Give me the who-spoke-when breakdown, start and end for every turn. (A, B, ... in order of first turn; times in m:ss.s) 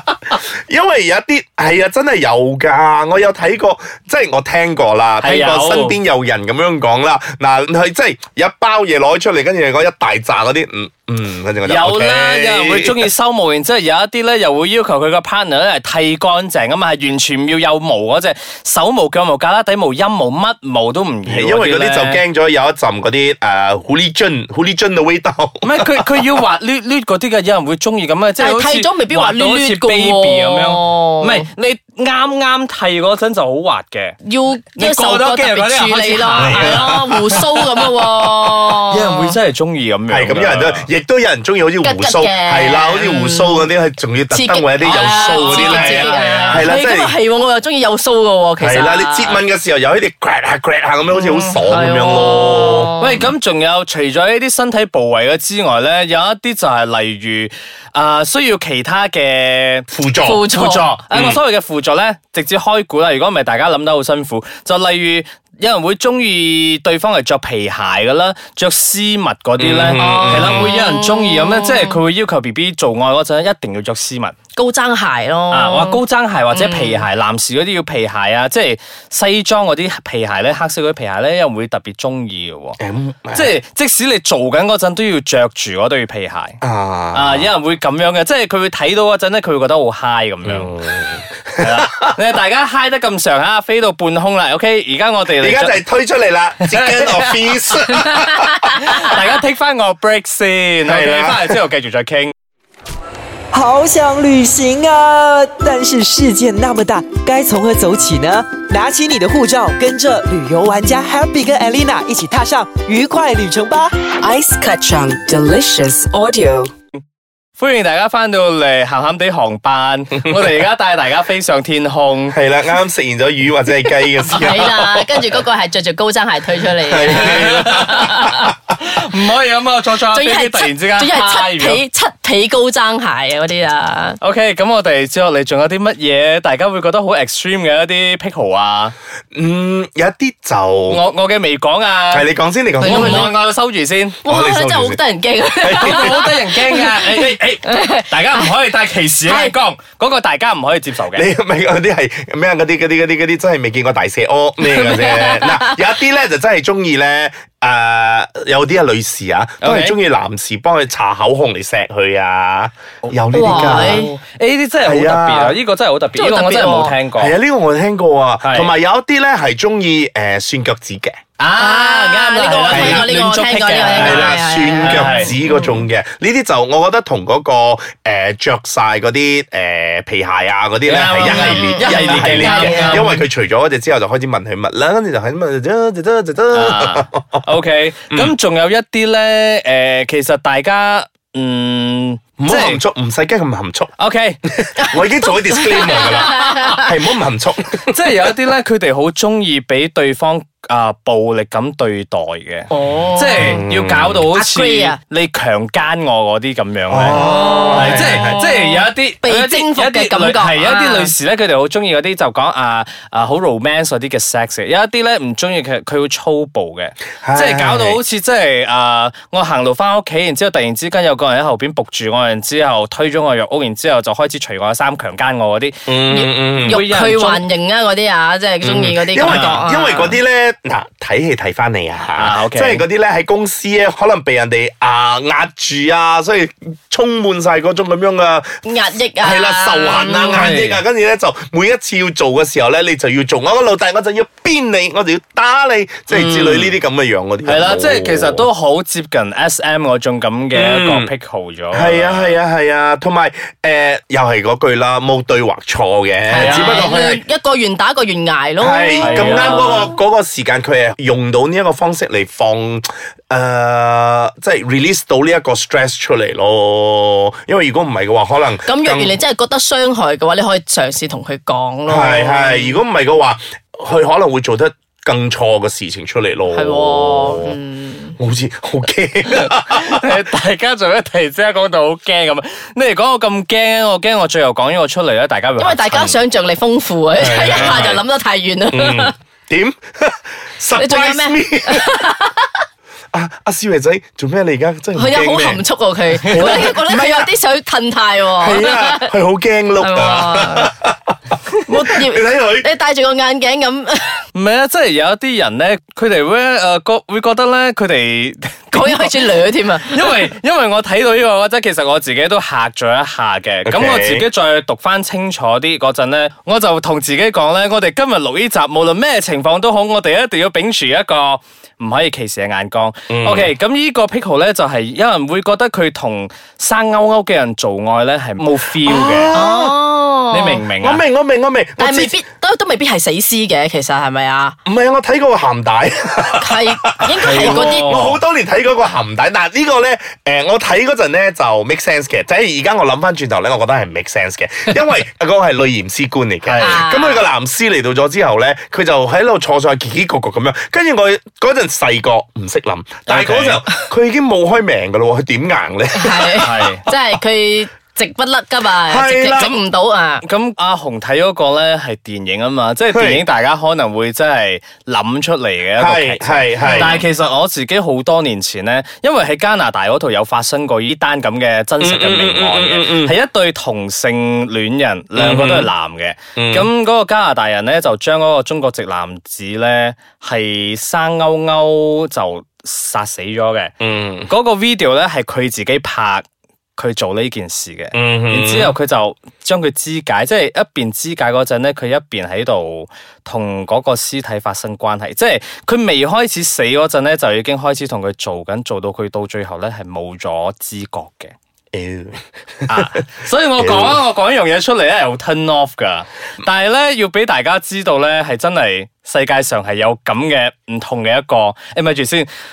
0:00.7-0:13.0 A
0:05.2-0:06.0 B
0:11.6-0:22.2 B
0:21.2-0:25.7 A
0:25.6-0:34.2 B
0:28.4-0:31.4 C
0:34.2-0:39.4 C
0:34.8-0:37.4 B
0:36.4-0:37.4 A
0:38.7-0:40.9 B
0:40.1-0:47.1 A
0:41.8-0:43.7 C
0:44.3-0:49.4 C
0:44.8-0:46.7 B
0:48.6-0:52.9 A
0:51.1-0:53.3 C
0:53.0-0:59.9 B
0:59.9-1:00.5 A
1:00.2-1:00.9 C
1:00.5-1:14.3 B
1:01.1-1:01.4 A
1:09.6-1:10.7 A
1:10.0-1:12.0 C
1:14.5-1:16.0 C
1:15.5-1:22.8 B
1:16.5-1:17.0 C
1:22.8-1:23.6 A
1:23.3-1:26.6 B
1:26.6-1:27.5 A
1:27.1-1:35.8 B
1:30.4-1:32.1 A
1:35.4-1:38.7 A
1:36.6-1:42.3 B
1:40.8-1:41.6 A
1:43.5-1:53.9 D
1:54.1-1:56.7 E
1:57.6-2:02.4 B
2:02.3-2:05.2 A
2:04.3-2:08.1 C
2:06.9-2:08.0 A
2:07.1-2:11.8 B
2:10.1-2:14.2 C
2:14.2-2:18.9 B
2:19.3-2:21.0 A
2:20.9-2:22.3 B
2:22.1-2:23.3 A
2:22.8-2:23.3 C
2:22.8-2:24.2 B
2:24.2-2:28.4 C
2:24.2-2:25.0 A
2:25.6-2:26.2 A
2:25.7-2:31.2 B
2:29.2-2:29.5 C
2:31.1-2:44.1 A
2:34.6-2:35.8 C
2:39.6-2:40.0 B
2:43.0-2:47.4 B
2:43.3-2:44.1 C
2:44.8-2:45.6 A
2:46.2-2:46.9 C
2:47.2-2:51.2 A
2:48.4-2:48.7 B
2:51.4-2:55.3 B
2:51.6-2:55.8 C
2:52.7-2:53.1 A
2:53.9-3:07.4 A
3:00.8-3:03.0 B
3:01.2-3:03.2 C
3:06.5-3:12.8 B
3:12.4-3:13.9 A
3:14.0-3:14.4 B
3:14.5-3:17.9 A
3:15.2-3:16.9 C
3:16.0-3:16.7 B
3:17.8-3:27.2 B
3:22.7-3:23.6 C
3:23.3-3:24.2 A
3:24.3-3:25.0 C
3:26.9-3:28.4 A
3:27.1-3:31.1 C
3:27.7-3:47.4 B
3:37.2-3:38.0 A
3:45.9-3:46.8 A
3:46.1-3:50.2 C
3:48.6-3:58.6 A
3:49.2-3:49.6 B
3:52.1-3:52.8 B
3:58.6-4:00.5 C
3:59.2-4:08.5 A
4:00.3-4:00.8 B
4:06.1-4:06.7 B
4:07.4-4:12.4 B
4:10.5-4:11.1 A
4:11.7-4:17.2 A
4:16.3-4:19.9 C
4:16.3-4:16.9 B
4:18.6-4:29.2 A
4:19.0-4:19.9 B
4:28.6-4:32.8 C
4:31.9-4:37.5 A
4:36.5-4:38.2 C
4:38.2-4:40.0 A
4:39.3-4:45.9 B
4:45.6-4:49.1 C
4:45.9-4:46.2 A
4:47.2-4:48.0 A
4:47.5-4:47.9 B
4:48.7-4:52.0 A
4:50.8-4:52.6 C
4:53.1-4:55.6 A
4:54.9-4:59.1 C
4:56.2-4:57.3 A
4:58.4-5:01.1 A
4:59.8-5:00.7 C
5:01.6-5:04.2 C
5:01.7-5:02.7 A
5:04.3-5:09.3 B
5:08.7-5:10.1 C
5:09.9-5:29.4 B
5:13.6-5:14.2 A
5:23.1-5:23.5 A
5:28.8-5:29.8 A
5:29.3-5:30.6 C
5:30.3-5:31.0 B
5:30.8-5:32.2 A
5:31.8-5:34.6 C
5:34.6-5:56.6 A
5:36.4-5:38.0 C
5:37.2-5:38.2 B
5:46.4-5:46.8 B
5:46.6-5:47.3 C
5:53.1-5:53.6 B
5:55.9-6:00.2 C
5:56.4-5:56.8 B
5:58.8-5:59.6 A
6:00.2-6:23.7 B
6:02.9-6:03.2 A
6:05.8-6:07.0 A
6:11.8-6:13.2 A
6:15.2-6:15.7 A
6:16.4-6:16.7 A
6:23.8-6:24.3 A
6:24.3-6:26.2 B
6:26.8-6:41.3 B
6:27.9-6:28.8 A
6:41.7-6:42.9 A
6:42.7-6:52.3 B
6:43.6-6:44.0 A